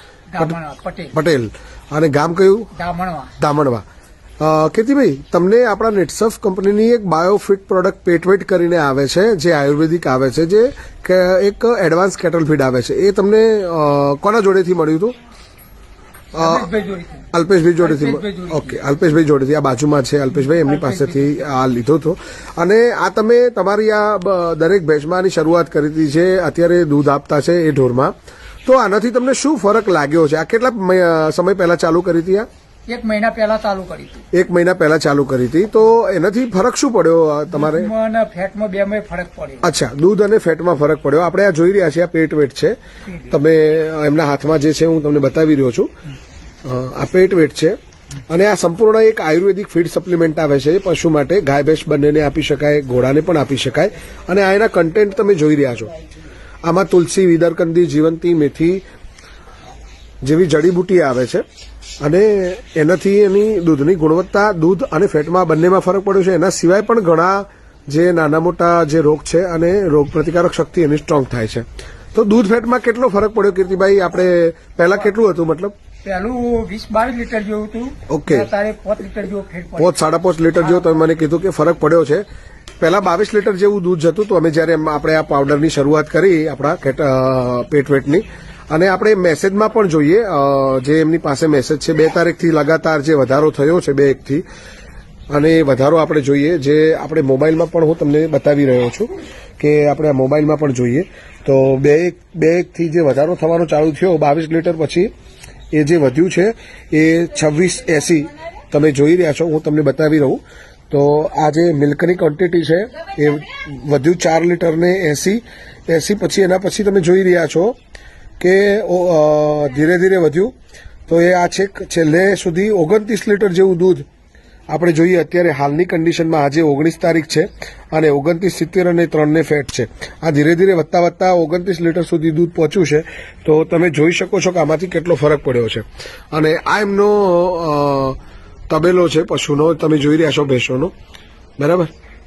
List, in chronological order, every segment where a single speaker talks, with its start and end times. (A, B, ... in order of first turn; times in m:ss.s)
0:00.3-0:01.1 A
0:01.1-0:02.7 B
0:02.7-0:03.3 A
0:03.4-0:03.8 B
0:04.4-0:15.1 B
0:16.3-0:17.3 A
0:16.4-0:16.7 B
0:17.3-0:28.1 B
0:17.8-0:18.8 A
0:20.3-0:21.4 A
0:28.6-0:32.4 B
0:32.9-0:34.2 A
0:34.3-0:37.9 B
0:37.5-0:39.7 A
0:39.6-0:42.8 B
0:43.0-0:43.4 A
0:43.3-0:45.9 B
0:46.6-0:47.8 B
0:48.3-0:55.9 B
0:56.6-0:58.8 B
1:00.2-1:01.4 B
1:02.0-1:15.7 B
1:16.0-1:20.0 A
1:18.1-1:18.5 B
1:19.8-1:22.2 B
1:22.8-1:34.4 B
1:35.3-1:45.1 B
1:45.7-1:57.8 B
1:58.4-2:00.5 B
2:01.1-2:04.0 B
2:04.7-2:18.2 B
2:18.7-2:20.9 B
2:21.6-2:21.9 B